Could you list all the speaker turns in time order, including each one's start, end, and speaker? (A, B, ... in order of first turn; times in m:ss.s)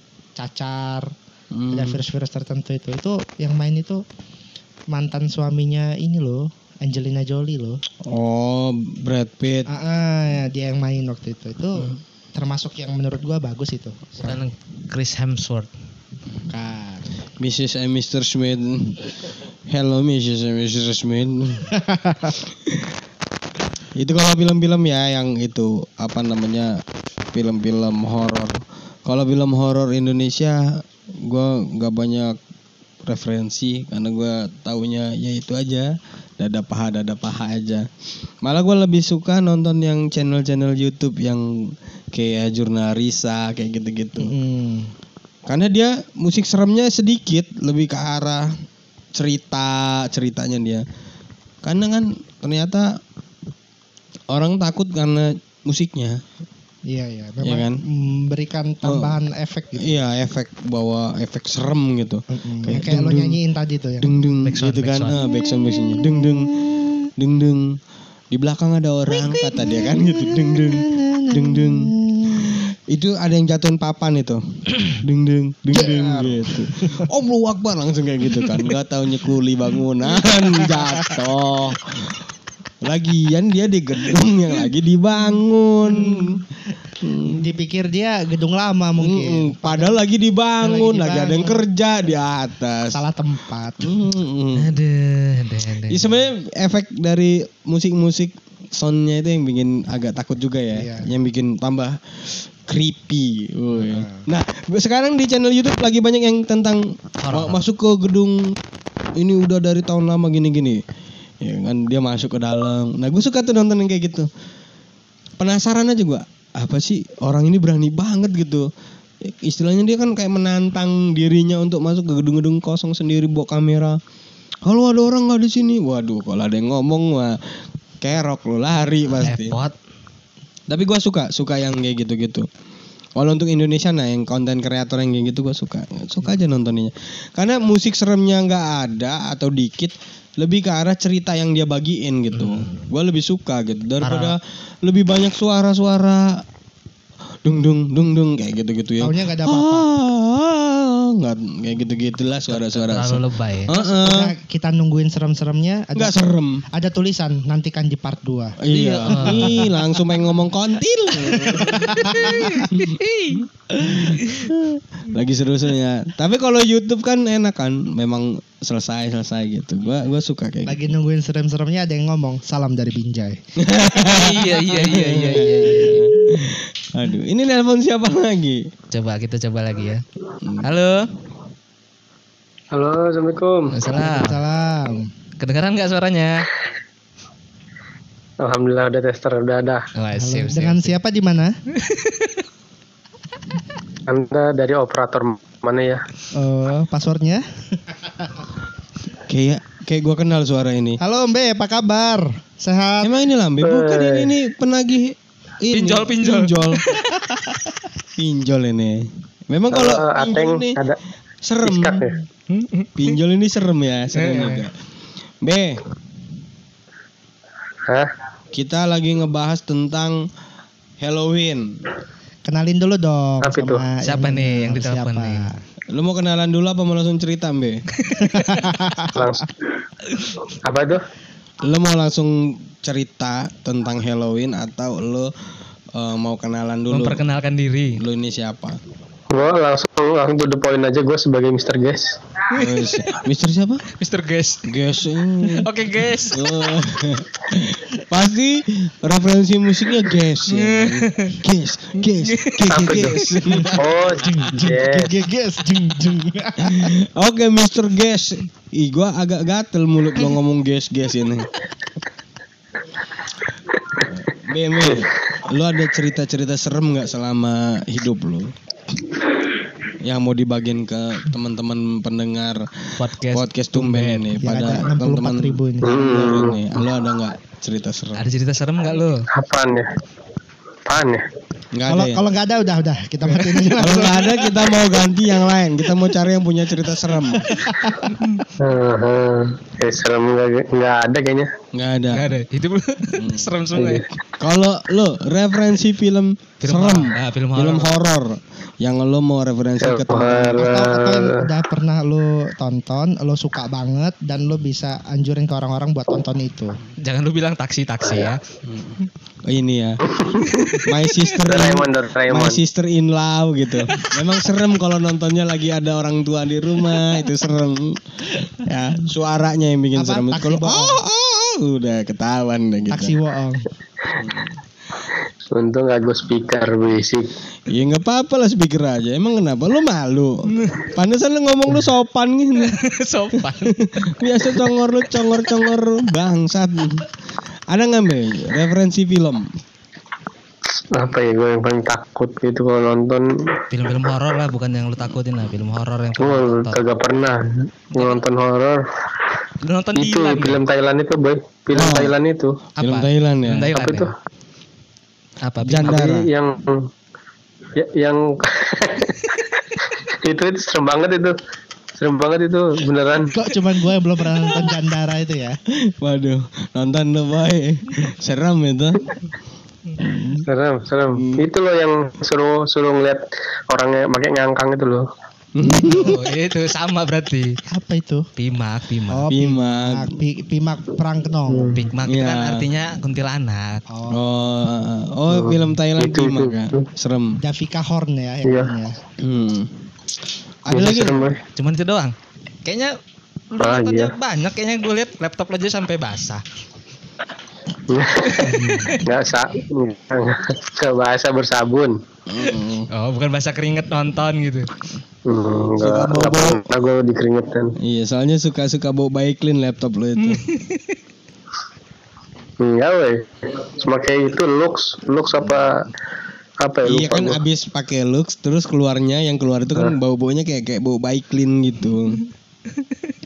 0:00.4-0:01.1 A
0:01.5-0:02.0 B
0:01.7-0:04.0 A
0:04.9-0:07.8 A
0:08.0-0:09.7 B
0:09.7-0:14.4 A
0:14.2-0:15.7 C
0:16.5-0:17.1 A
0:17.4-0:21.7 B
0:21.7-0:22.4 A
0:22.6-0:22.9 B
0:24.0-0:32.4 B
0:33.0-0:37.9 B
0:38.4-0:44.3 B
0:44.2-0:44.9 A
0:45.5-0:48.5 B
0:49.1-0:50.8 B
0:51.6-0:53.0 B
0:54.3-0:56.2 B
0:56.9-1:00.0 A
0:57.4-0:57.8 B
0:58.8-0:59.2 B
0:59.8-1:03.4 B
1:02.3-1:04.1 A
1:04.0-1:06.6 B
1:04.4-1:05.2 C
1:05.1-1:07.0 A
1:07.2-1:07.8 B
1:08.3-1:22.2 B
1:09.1-1:12.7 A
1:15.7-1:17.1 A
1:20.6-1:21.2 A
1:22.8-1:26.4 B
1:25.9-1:26.4 A
1:27.0-1:27.5 B
1:27.2-1:30.0 A
1:29.0-1:33.0 B
1:30.6-1:31.6 A
1:32.9-1:34.0 A
1:33.8-1:34.8 B
1:34.6-1:36.2 C
1:35.9-1:48.6 B
1:40.7-1:41.1 A
1:43.8-1:44.2 A
1:47.2-1:47.6 C
1:49.2-1:50.8 B
1:51.4-1:54.3 B
1:55.4-1:58.7 B
1:59.2-2:04.0 B
2:04.6-2:07.4 B
2:08.0-2:09.6 B
2:09.2-2:09.8 C
2:10.7-2:12.5 B
2:13.2-2:26.4 B
2:22.3-2:22.9 C
2:24.0-2:24.4 C
2:27.4-2:34.3 B
2:29.0-2:29.9 A
2:32.5-2:33.7 C
2:33.7-2:36.2 A
2:36.0-2:36.6 B
2:36.7-2:38.6 A
2:38.6-2:43.0 B
2:38.7-2:39.7 C
2:41.2-2:42.7 A
2:41.9-2:44.5 C
2:43.8-2:50.8 B
2:50.7-2:53.4 A
2:53.6-2:58.7 B
2:53.9-2:56.0 C
2:55.4-2:56.1 A
2:58.9-3:00.0 C
3:00.4-3:00.7 B
3:00.6-3:01.1 C
3:02.7-3:03.8 D
3:03.7-3:04.4 C
3:03.9-3:05.1 A
3:05.4-3:06.5 C
3:08.4-3:09.9 D
3:10.0-3:11.0 C
3:10.2-3:11.6 A
3:11.7-3:12.4 C
3:14.1-3:16.0 D
3:16.3-3:18.4 A
3:19.3-3:21.0 B
3:21.0-3:23.1 A
3:23.0-3:26.8 B
3:23.6-3:24.3 D
3:25.7-3:27.2 C
3:28.2-3:30.8 B
3:29.7-3:31.0 D
3:31.4-3:32.1 B
3:31.6-3:32.1 D
3:32.5-3:33.0 C
3:33.0-3:34.7 B
3:34.1-3:34.7 C
3:35.4-3:35.8 B
3:38.5-3:40.3 B
3:41.0-3:41.8 B
3:42.4-3:45.6 A
3:43.4-3:43.8 D
3:44.0-3:45.5 C
3:45.9-3:47.8 B
3:48.0-3:48.6 C
3:48.2-3:49.3 A
3:49.1-3:49.5 D
3:50.5-3:51.0 D
3:51.6-3:55.3 B
3:55.9-3:57.2 B
3:56.9-3:58.0 C
3:58.0-3:58.8 B
3:59.3-4:02.2 D
4:02.5-4:03.9 B
4:02.6-4:02.9 C
4:03.9-4:04.6 C
4:04.6-4:15.0 B
4:05.5-4:06.6 C
4:10.5-4:11.4 C
4:12.0-4:13.7 C
4:12.7-4:13.2 D
4:13.8-4:15.2 D
4:14.2-4:17.0 A
4:16.6-4:21.5 B
4:24.0-4:28.5 B
4:30.0-4:38.2 B
4:33.0-4:34.4 C
4:34.4-4:36.4 A
4:35.8-4:36.6 D
4:38.2-4:39.3 C
4:39.3-4:39.9 D
4:40.9-4:41.2 D
4:41.7-4:42.2 B
4:41.9-4:44.7 A
4:43.8-4:47.6 B
4:47.4-4:48.1 A
4:48.2-4:48.4 C
4:48.6-4:51.5 D
4:51.7-4:52.3 B
4:52.1-4:54.1 C
4:53.1-4:53.5 B
4:53.8-4:54.0 D
4:54.4-5:00.8 B
4:56.6-4:57.9 C
4:59.8-5:01.4 D
5:00.6-5:06.8 A
5:07.0-5:08.4 C
5:08.7-5:10.0 B
5:10.1-5:10.5 D
5:10.4-5:10.9 C
5:10.8-5:23.2 B
5:11.4-5:12.6 D
5:20.0-5:21.0 A
5:22.9-5:23.7 A
5:24.1-5:24.5 B
5:25.5-5:27.3 D
5:27.7-5:32.8 B
5:30.6-5:30.9 C
5:32.6-5:34.7 C
5:33.7-5:37.1 B
5:35.2-5:35.5 C
5:37.7-5:39.5 B
5:40.9-5:43.6 D
5:43.7-5:46.8 C
5:46.2-5:48.8 D
5:47.9-5:48.2 C
5:49.6-5:50.6 C
5:50.0-5:52.6 D
5:51.7-5:52.2 B
5:52.8-5:54.1 C
5:52.8-5:53.7 B
5:53.8-5:54.1 D
5:55.4-5:56.1 C
5:55.6-5:56.3 B
5:55.8-5:56.9 D
5:57.8-6:01.4 D
6:02.0-6:03.4 D
6:03.3-6:05.6 A
6:05.7-6:09.1 B
6:10.0-6:10.5 B
6:10.4-6:15.1 D
6:11.2-6:11.5 B
6:15.6-6:16.2 B
6:15.9-6:17.6 C
6:17.7-6:18.3 A
6:18.4-6:19.3 C
6:19.1-6:21.8 A
6:19.3-6:20.2 B
6:21.5-6:21.8 D
6:21.8-6:23.8 C
6:22.1-6:22.7 B
6:23.9-6:24.2 A
6:24.1-6:27.4 B
6:25.3-6:26.8 D
6:27.4-6:29.0 A
6:29.2-6:29.7 B
6:30.6-6:31.4 B
6:30.7-6:31.4 D
6:31.6-6:33.0 C
6:33.5-6:36.4 C
6:33.6-6:34.1 D
6:37.9-6:42.0 D
6:38.3-6:39.0 C
6:38.5-6:39.0 B
6:42.3-6:42.9 B
6:42.5-6:44.7 C
6:45.2-6:47.8 D
6:45.8-6:46.7 B
6:47.8-6:50.4 B
6:50.2-6:50.9 C
6:52.6-6:55.8 D
6:56.6-6:57.4 D
6:56.8-7:02.2 B